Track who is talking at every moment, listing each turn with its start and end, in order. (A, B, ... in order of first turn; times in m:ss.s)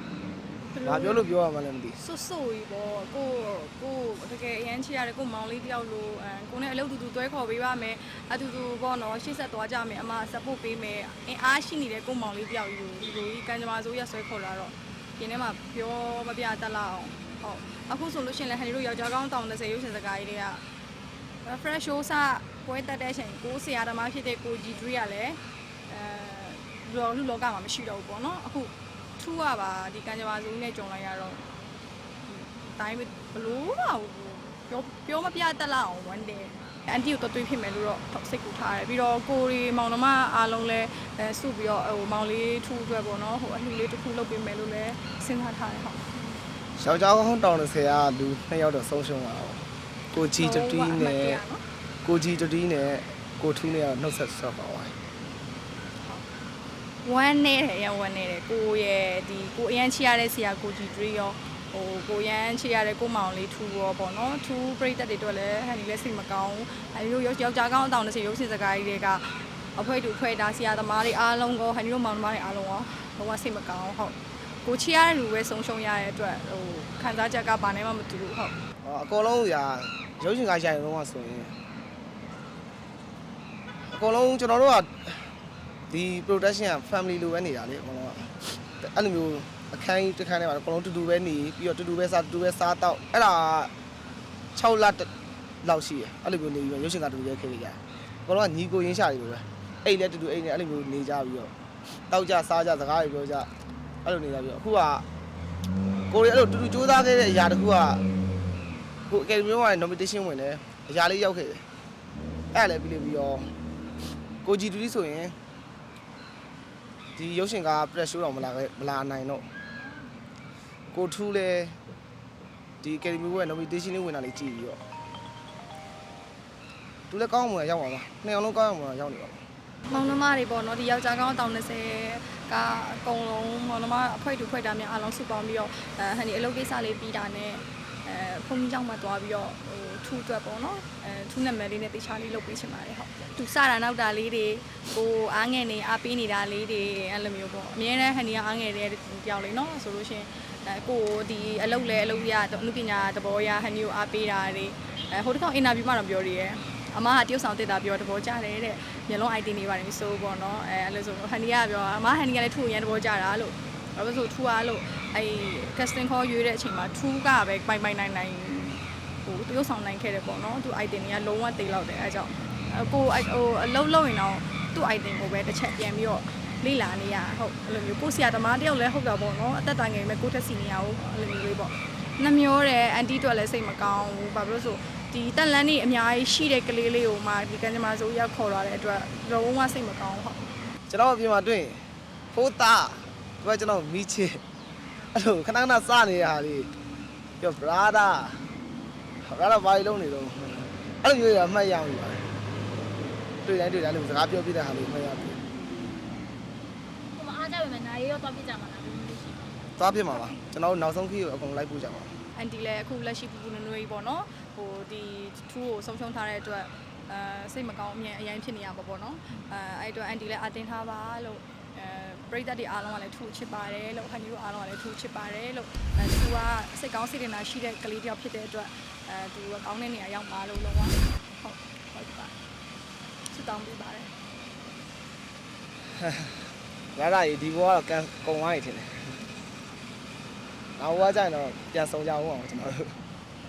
0:00.7-0:01.3 A
0:00.8-0:02.0 B
0:02.0-0:20.6 A
0:21.4-0:31.4 A
0:32.3-0:46.1 A
0:46.8-0:51.4 B
0:50.4-0:51.6 A
0:52.0-0:55.0 B
0:57.0-1:18.5 A
1:18.8-1:21.6 B
1:23.9-1:25.3 B
1:25.9-1:33.7 B
1:34.5-1:35.1 B
1:35.6-1:41.5 B
1:42.1-1:43.5 B
1:44.0-1:45.0 B
1:46.1-1:48.0 B
1:49.1-1:51.6 B
1:52.5-1:53.5 B
1:54.4-1:55.4 B
1:57.2-1:59.5 B
2:00.9-2:01.8 B
2:02.8-2:04.8 B
2:07.1-2:09.4 B
2:09.9-3:10.4 A
3:10.9-3:14.4 B
3:15.1-3:16.7 B
3:17.4-3:18.5 B
3:19.2-3:22.3 B
3:23.4-3:25.4 B
3:27.1-3:29.6 C
3:29.8-3:32.2 B
3:32.3-3:52.3 A
3:53.3-3:54.1 A
3:56.0-3:56.3 B
3:56.9-3:59.2 B
4:00.8-4:03.0 B